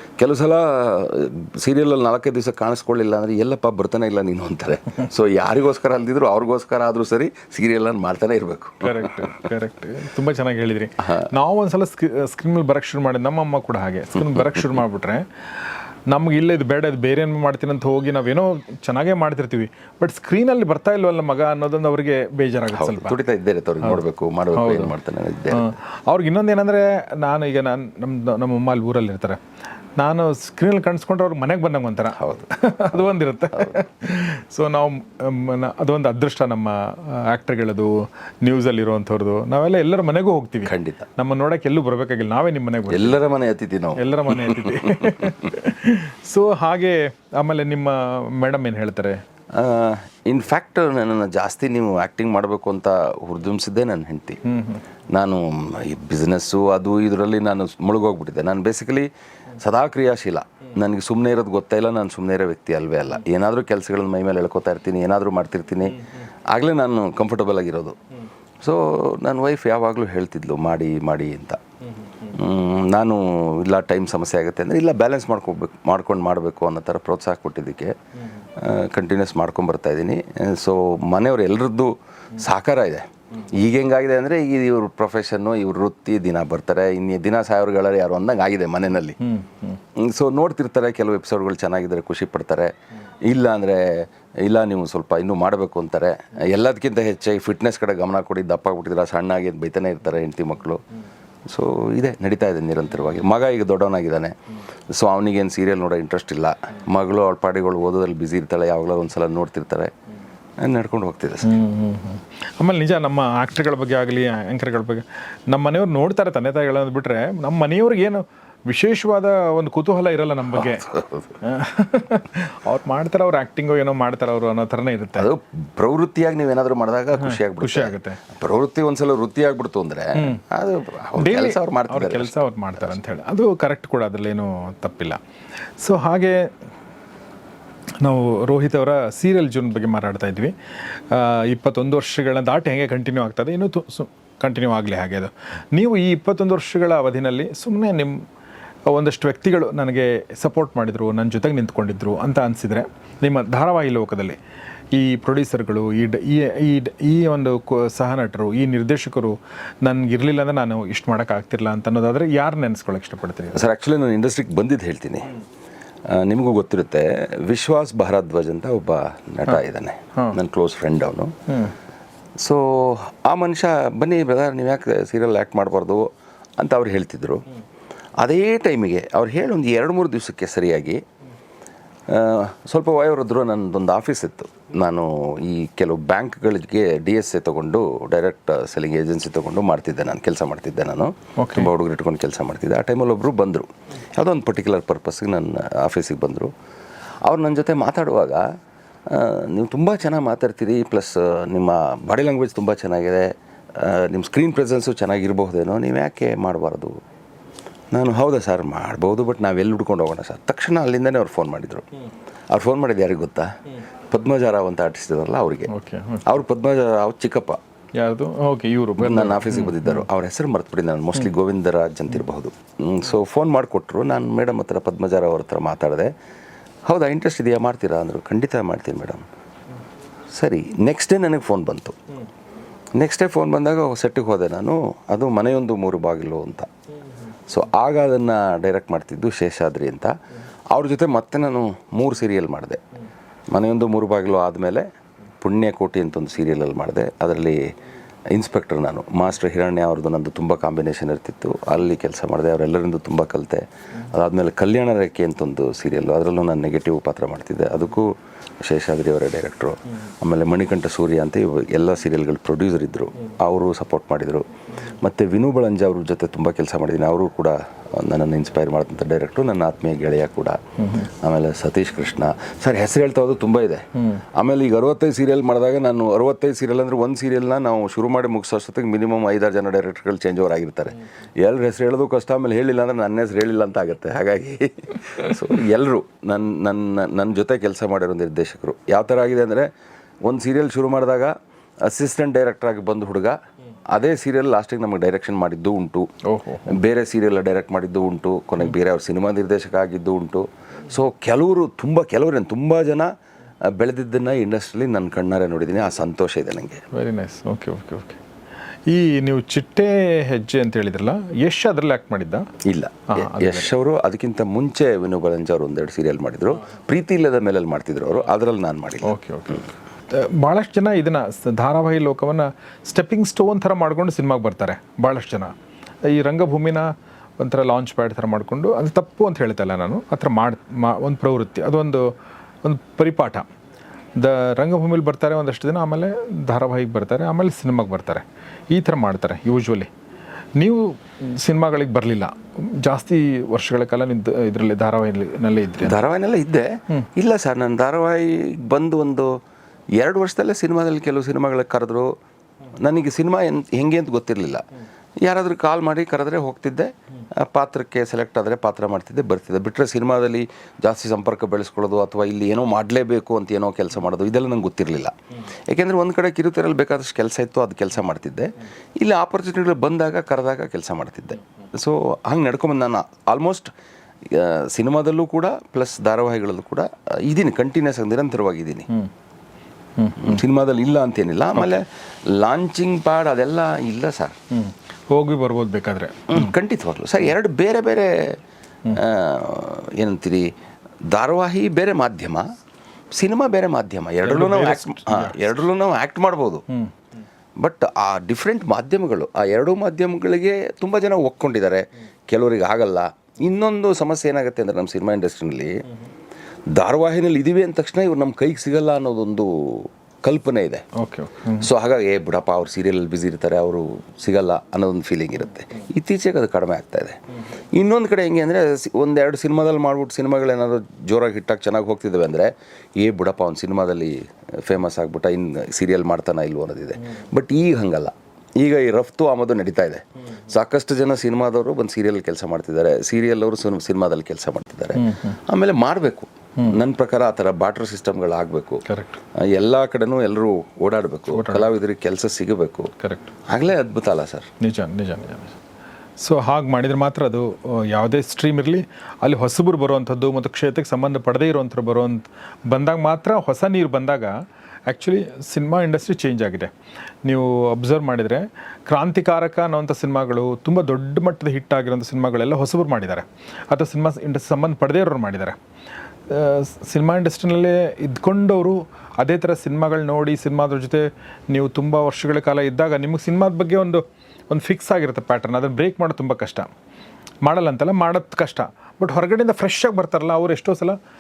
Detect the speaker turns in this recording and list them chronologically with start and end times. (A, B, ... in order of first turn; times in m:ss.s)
0:00.2-0:09.4 A
0:08.8-0:15.3 B
0:14.2-0:14.6 A
0:16.1-0:23.2 B
0:22.7-0:25.7 A
0:24.5-0:24.9 B
0:25.5-0:29.4 B
0:30.0-0:43.2 B
0:32.2-0:33.8 A
0:40.7-0:41.1 A
0:42.9-0:45.4 A
0:44.0-0:49.2 B
0:49.5-0:54.4 A
0:54.5-0:54.8 B
0:55.1-1:08.0 A
1:08.6-1:11.6 A
1:12.2-1:17.9 A
1:18.6-1:29.2 A
1:29.2-1:29.8 B
1:29.9-1:32.7 A
1:33.3-1:40.8 A
1:41.5-1:44.4 A
1:44.9-1:49.9 A
1:50.6-1:51.5 A
1:51.4-2:00.9 B
2:00.6-2:01.4 A
2:01.4-2:05.3 B
2:05.2-2:12.4 A
2:07.2-2:08.2 B
2:10.2-2:10.4 B
2:11.2-2:15.2 B
2:15.8-2:16.5 B
2:18.0-2:28.2 B
2:28.9-2:34.4 B
2:34.9-2:43.7 B
2:43.5-2:45.4 A
2:46.1-2:51.3 A
2:51.5-2:51.7 B
2:52.4-2:56.1 A
2:56.6-2:57.5 A
2:58.2-3:01.0 A
3:02.1-3:16.5 A
3:11.4-3:11.7 B
3:17.3-3:18.4 A
3:19.1-3:27.0 A
3:27.9-3:31.9 A
3:32.5-3:33.6 A
3:34.1-3:35.7 A
3:35.7-3:36.3 B
3:36.2-3:37.6 A
3:38.0-3:40.0 B
3:39.0-3:46.1 A
3:46.9-3:49.3 A
3:50.3-3:52.0 A
3:53.0-3:56.7 A
3:57.5-4:00.2 A
4:00.7-4:02.8 A
4:03.5-4:04.9 A
4:05.4-4:07.6 A
4:08.3-4:18.1 A
4:18.6-4:49.7 A
4:30.8-4:31.1 B
4:34.0-4:34.2 B
4:50.2-4:53.4 A
4:53.9-4:56.1 A
4:56.2-4:56.8 B
4:56.7-5:03.1 A
5:03.6-5:06.8 A
5:06.9-5:08.2 B
5:08.9-5:12.5 B
5:12.6-5:19.2 A
5:13.1-5:13.7 B
5:19.0-5:25.5 B
5:26.1-5:32.1 B
5:32.6-5:33.5 B
5:34.2-5:39.9 B
5:40.6-5:46.0 B
5:45.8-5:49.4 A
5:50.0-5:52.1 A
5:52.8-5:54.6 A
5:55.2-6:13.7 A
6:14.2-6:18.9 A
6:20.0-6:20.4 B
6:20.2-6:24.4 A
6:24.5-6:26.5 B
6:26.3-6:28.4 A
6:28.9-6:30.5 A
6:31.1-6:32.4 A
6:33.1-6:36.6 A
6:34.2-6:35.5 B
6:37.6-6:45.8 A
6:46.7-6:50.9 A
6:51.0-6:51.7 B
6:51.6-6:57.2 A
6:57.7-7:18.8 A
7:14.9-7:15.4 B
7:18.9-7:19.2 B
7:19.4-7:22.9 A
7:21.3-7:21.7 B
7:23.0-7:23.3 B
7:23.5-7:24.5 A
7:24.6-7:25.6 B
7:26.2-7:34.4 B
7:34.9-7:36.7 B
7:37.3-7:45.6 B
7:46.3-7:56.7 B
7:57.4-8:01.0 B